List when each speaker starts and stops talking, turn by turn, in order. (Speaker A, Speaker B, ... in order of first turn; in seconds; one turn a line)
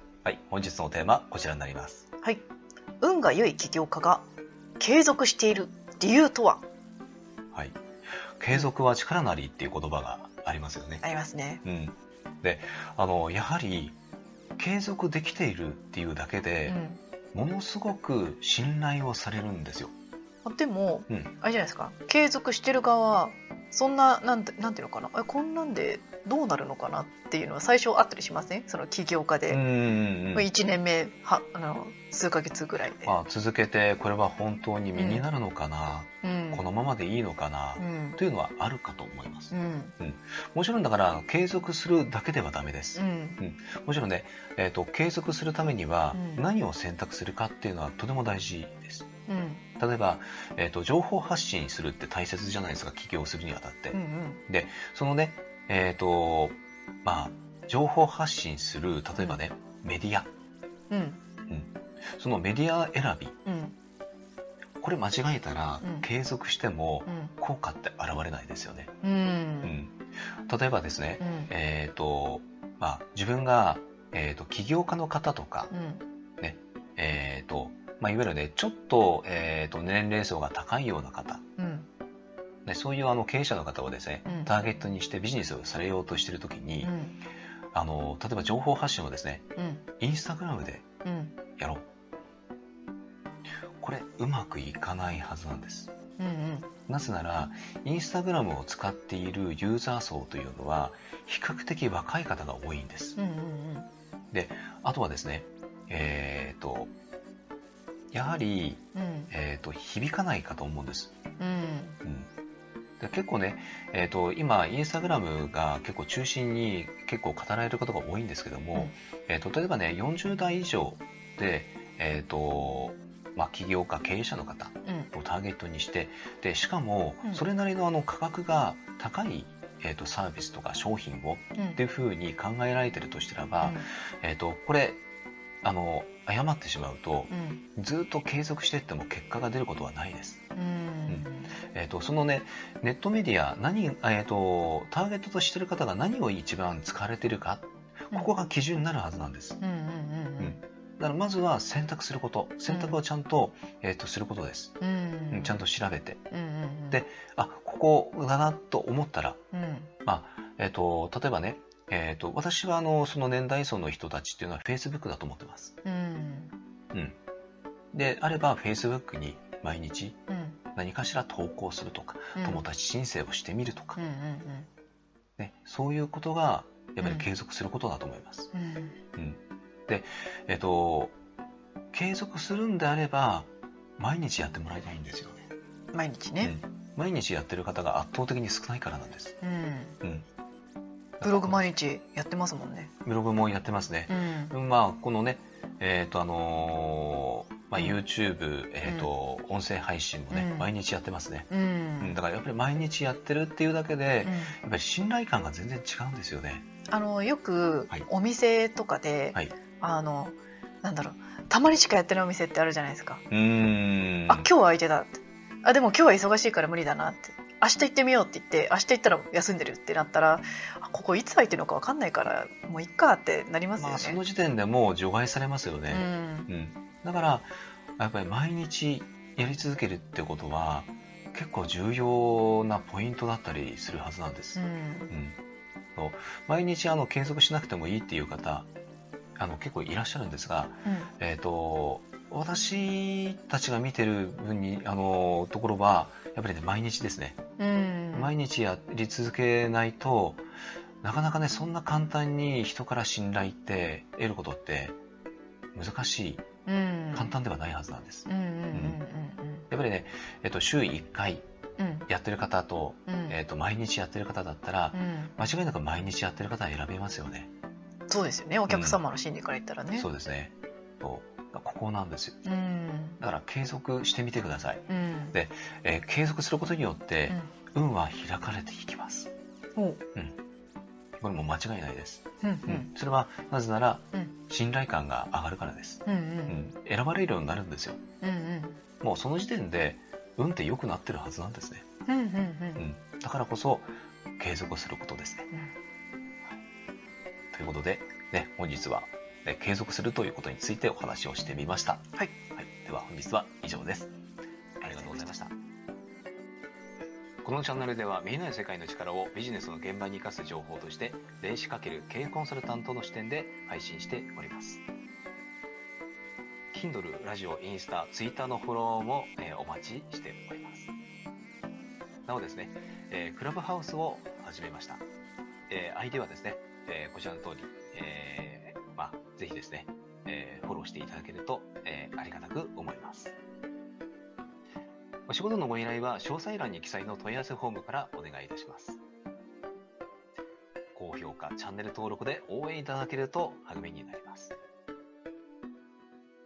Speaker A: 0.2-2.1
Speaker B: 3.0-4.3
Speaker B: 4.8-6.7
Speaker A: 7.5-7.8
Speaker A: 8.4-11.0
Speaker B: 11.0-11.6
Speaker A: 11.6-14.0
Speaker A: 14.6-16.8
Speaker B: 16.6-17.0
Speaker A: 17.3-19.9
Speaker B: 20.4-29.6
Speaker A: 29.5-30.5
Speaker B: 30.3-33.1
Speaker A: 33.0-49.1
Speaker B: 34.9-35.2
Speaker B: 36.2-36.6
Speaker B: 37.8-38.2
Speaker B: 39.5-39.9
Speaker B: 43.0-43.4
Speaker B: 46.1-46.5
Speaker B: 49.3-49.7
Speaker A: 49.8-60.3
Speaker B: 53.9-54.4
Speaker B: 60.9-61.2
Speaker A: 61.5-63.4
Speaker B: 63.5-63.8
Speaker A: 64.8-68.9
Speaker B: 65.8-66.1
Speaker B: 67.1-67.3
Speaker B: 69.0-69.8
Speaker A: 69.6-75.7
Speaker B: 71.2-71.5
Speaker B: 75.7-76.0
Speaker A: 76.4-81.4
Speaker B: 81.6-81.9
Speaker A: 82.7-86.9
Speaker B: 84.3-84.5
Speaker B: 86.8-87.2
Speaker A: 87.7-89.5
Speaker B: 89.6-89.8
Speaker A: 90.0-90.9
Speaker B: 91.0-91.4
Speaker A: 91.6-91.8
Speaker A: 93.8-95.9
Speaker B: 96.2-96.7
Speaker A: 96.9-103.2
Speaker B: 103.2-103.9
Speaker A: 104.3-106.9
Speaker A: 108.1-111.1
Speaker B: 109.0-109.3
Speaker B: 111.4-112.0
Speaker A: 113.0-135.0
Speaker B: 124.9-125.1
Speaker B: 133.6-133.9
Speaker A: 135.6-140.4
Speaker B: 137.3-137.6
Speaker B: 140.6-141.6
Speaker A: 141.1-149.6
Speaker B: 149.6-150.6
Speaker A: 150.4-154.8
Speaker B: 152.7-153.0
Speaker B: 154.8-155.6
Speaker A: 155.3-156.2
Speaker B: 156.3-157.0
Speaker A: 156.9-159.4
Speaker B: 159.5-159.9
Speaker A: 160.1-165.8
Speaker B: 165.8-166.5
Speaker A: 167.9-170.2
Speaker B: 170.3-170.6
Speaker A: 170.8-174.0
Speaker B: 172.4-172.6
Speaker B: 174.0-174.7
Speaker A: 175.4-178.5
Speaker B: 177.0-177.3
Speaker B: 178.5-179.0
Speaker A: 179.2-181.2
Speaker A: 181.9-185.5
Speaker B: 185.9-186.6
Speaker A: 186.4-189.4
Speaker B: 189.4-190.0
Speaker B: 191.2-192.9
Speaker A: 191.2-191.7
Speaker A: 193.1-201.5
Speaker B: 194.1-194.5
Speaker B: 200.3-200.7
Speaker B: 201.5-202.2
Speaker A: 202.0-206.7
Speaker B: 204.2-204.6
Speaker B: 206.9-213.2
Speaker A: 213.3-214.5
Speaker B: 214.3-224.2
Speaker A: 223.8-235.4
Speaker B: 225.9-226.5
Speaker B: 234.6-235.1
Speaker A: 236.0-238.7
Speaker A: 239.4-247.4
Speaker B: 240.8-241.1
Speaker B: 247.6-248.3
Speaker A: 248.1-250.5
Speaker A: 251.0-255.0
Speaker A: 255.8-256.5
Speaker B: 256.7-257.4
Speaker A: 257.1-259.0
Speaker B: 258.3-259.7
Speaker A: 259.7-261.4
Speaker B: 261.8-262.1
Speaker A: 262.1-267.5
Speaker B: 263.1-263.4
Speaker B: 264.9-265.4
Speaker B: 268.1-270.1
Speaker A: 268.7-269.0
Speaker A: 269.9-272.4
Speaker B: 272.4-273.2
Speaker A: 273.2-279.3
Speaker B: 274.9-275.4
Speaker B: 279.8-280.0
Speaker A: 281.2-288.0
Speaker B: 282.4-282.9
Speaker B: 286.1-286.6
Speaker B: 288.2-288.8
Speaker A: 289.0-291.9
Speaker B: 292.1-292.8
Speaker A: 292.8-295.5
Speaker A: 297.5-304.1
Speaker A: 304.8-305.5
Speaker B: 304.8-305.3
Speaker A: 307.4-314.8
Speaker A: 316.7-320.9
Speaker A: 322.3-325.0
Speaker A: 325.7-333.4
Speaker A: 335.3-339.0
Speaker A: 340.9-344.6